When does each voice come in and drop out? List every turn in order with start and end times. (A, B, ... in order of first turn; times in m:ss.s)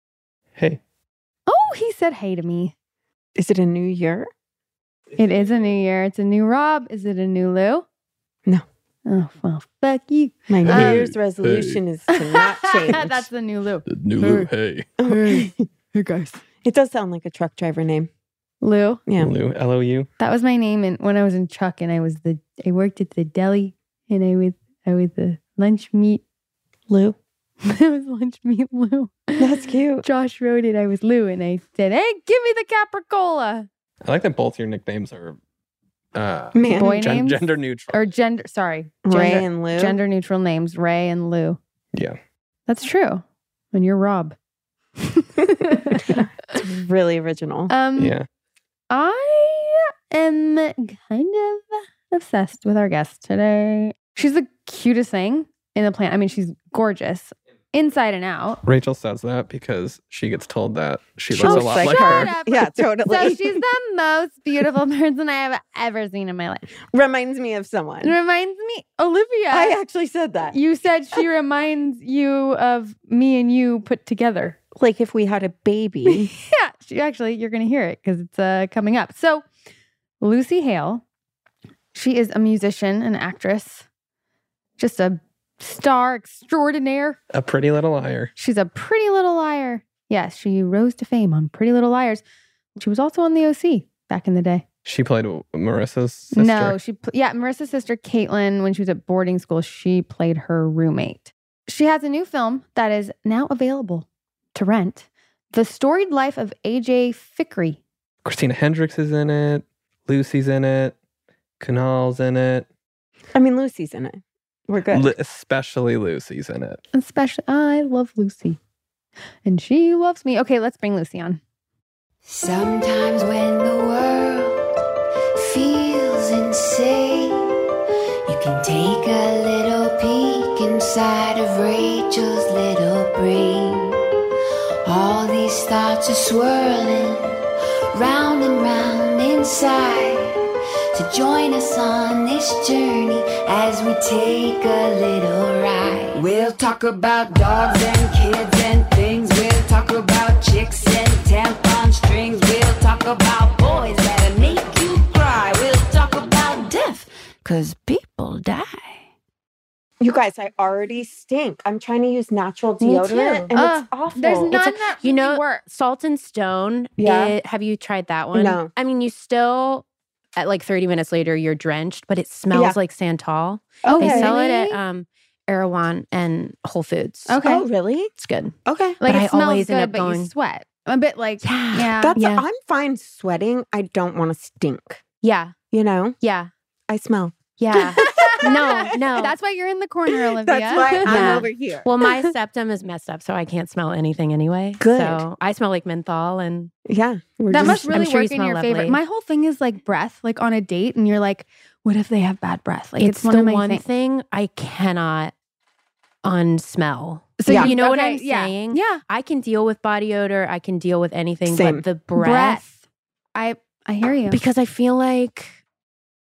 0:01.5-0:02.7 A
0:03.4-0:04.3 B
0:05.2-0:07.8 A
0:09.0-0:11.0 A
0:10.5-0:13.2 B
0:10.6-0:11.8 C
0:12.1-0:14.5 A
0:13.9-0:15.0 C
0:15.0-0:15.5 B
0:15.1-0:16.4 A
0:16.6-0:18.1 B
0:18.6-0:19.0 A
0:19.2-0:20.1 C
0:20.2-0:26.2 A
0:26.9-0:27.2 B
0:27.6-0:33.7 A
0:29.4-0:30.0 B
0:34.0-0:35.4 C
0:36.1-0:38.0 C
0:36.5-0:37.1 B
0:36.6-0:41.6 A
0:39.0-0:40.0 B
0:42.7-0:44.4 A
0:45.0-0:46.2 A
0:46.5-0:47.7 B
0:47.7-0:48.2 A
0:48.0-0:48.3 C
0:48.9-0:58.6 A
0:58.6-1:02.3 C
1:01.3-1:03.6 B
1:01.4-1:06.7 A
1:06.9-1:08.2 B
1:08.0-1:09.8 A
1:09.5-1:10.6 B
1:10.5-1:14.6 A
1:14.7-1:16.3 B
1:16.0-1:19.4 A
1:20.2-1:21.0 A
1:21.9-1:23.8 A
1:24.8-1:27.2 A
1:27.3-1:28.3 C
1:28.4-1:32.2 A
1:32.8-1:34.6 A
1:34.8-1:36.8 C
1:36.3-1:47.8 A
1:48.2-1:51.0 C
1:51.6-1:52.6 C
1:53.3-1:55.1 B
1:54.9-1:56.8 C
1:56.9-1:58.6 A
1:59.4-2:01.4 A
2:02.2-2:04.6 D
2:05.4-2:07.4 D
2:08.3-2:14.0 D
2:14.8-2:17.3 D
2:17.9-2:20.3 D
2:20.9-2:39.0 D
2:40.0-2:44.6 B
2:42.8-2:43.5 E
2:43.1-2:43.4 D
2:43.5-2:45.6 A
2:44.5-2:49.8 E
2:47.0-2:47.4 B
2:48.3-2:48.7 B
2:50.4-2:57.4 E
2:52.5-2:52.8 B
2:53.8-2:54.3 B
2:53.9-2:54.8 A
2:57.3-2:57.6 A
2:57.4-2:58.1 B
2:58.2-3:00.3 E
2:58.6-2:59.0 B
2:59.0-3:02.2 A
3:01.4-3:02.4 E
3:01.8-3:05.0 B
3:05.2-3:05.5 E
3:05.7-3:06.2 B
3:06.2-3:06.5 E
3:06.9-3:09.0 B
3:07.6-3:09.3 E
3:07.7-3:11.4 A
3:10.3-3:11.9 B
3:11.0-3:16.7 E
3:14.8-3:15.2 B
3:16.8-3:17.9 B
3:17.5-3:23.8 A
3:17.6-3:19.0 E
3:23.0-3:25.3 E
3:26.2-3:32.6 E
3:27.4-3:29.0 A
3:27.4-3:27.7 B
3:31.4-3:31.8 B
3:32.1-3:32.8 A
3:33.3-3:34.4 A
3:34.3-3:35.6 E